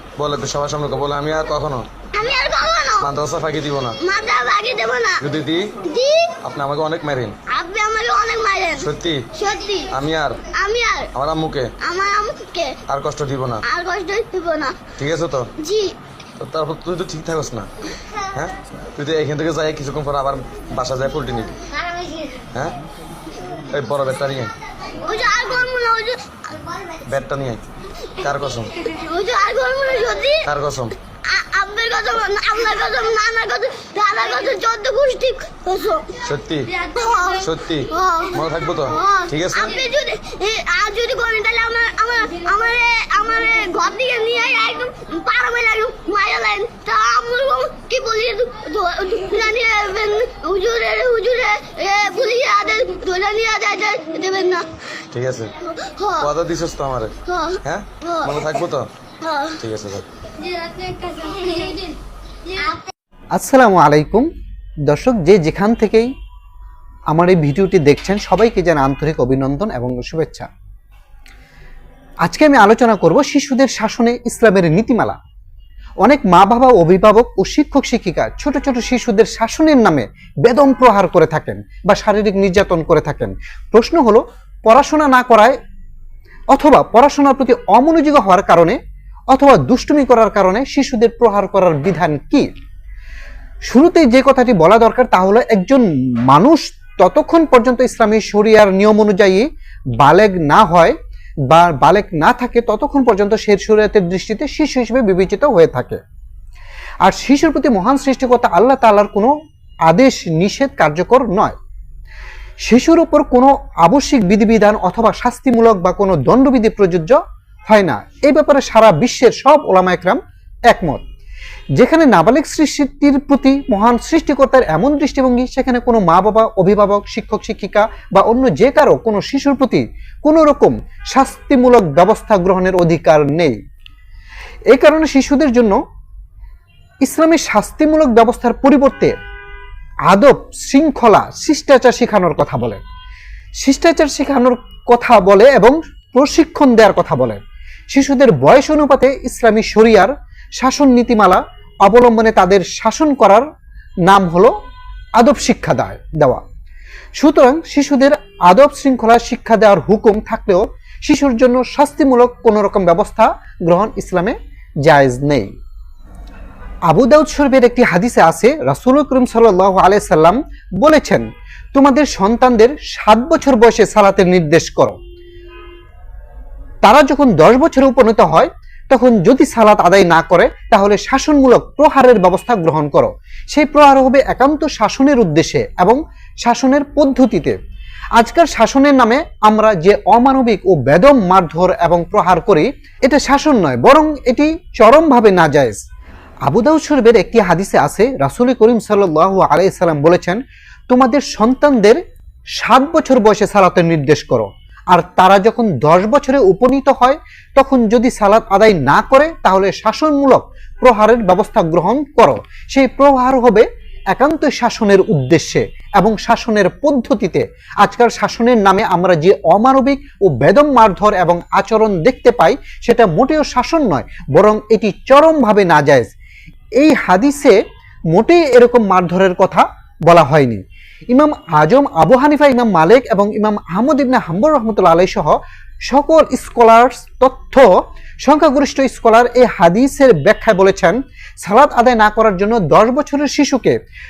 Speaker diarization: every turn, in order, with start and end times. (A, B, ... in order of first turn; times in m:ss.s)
0:00.2-0:01.8 A
0:02.1-0:03.1 B
0:03.0-0:04.0 A
0:04.0-0:05.2 B
0:05.2-0:05.7 A
0:05.8-0:06.4 B
0:06.4-0:07.3 A
0:07.5-0:09.9 B
0:08.8-0:09.2 A
0:09.9-0:10.4 A
0:10.5-0:11.1 B
0:11.1-0:11.7 A
0:11.8-0:12.8 B
0:12.9-0:13.6 A
0:13.6-0:14.8 B
0:15.0-0:15.5 A
0:15.6-0:16.0 B
0:16.4-0:17.7 A
0:18.2-0:21.6 A
0:23.7-0:24.5 A
0:25.0-0:26.4 B
0:27.1-0:27.6 A
0:28.2-0:28.7 A
0:28.8-0:30.5 B
0:30.4-0:31.0 A
0:31.2-0:36.2 B
0:36.2-0:39.8 A
0:36.8-0:54.7 B
0:55.1-0:55.5 A
0:55.6-0:56.3 B
0:56.2-0:57.1 A
0:57.2-0:58.4 B
0:57.6-0:58.9 A
0:59.2-0:59.6 B
0:59.6-1:00.0 A
1:00.6-1:01.9 B
1:02.5-1:02.8 B
1:03.3-1:04.3 C
1:04.9-1:06.1 C
1:07.1-1:10.5 C
1:12.2-1:15.2 C
1:16.0-1:25.6 C
1:26.5-1:28.8 C
1:29.3-1:32.5 C
1:33.7-1:39.4 C
1:40.0-1:40.9 C
1:41.5-1:46.0 C
1:47.0-1:49.3 C
1:49.9-1:51.6 C
1:52.6-2:01.0 C
2:01.8-2:13.6 C
2:14.7-2:15.8 C
2:17.0-2:19.1 C
2:20.1-2:22.8 C
2:23.6-2:27.4 C
2:27.9-2:33.4 C
2:34.0-2:34.5 C
2:35.2-2:36.4 C
2:37.2-2:45.5 C
2:46.9-2:55.0 C
2:56.8-3:07.6 C
3:08.2-3:15.8 C
3:16.4-3:22.0 C
3:22.6-3:46.1 C
3:46.8-3:47.6 C
3:48.1-3:57.7 C
3:58.2-4:03.8 C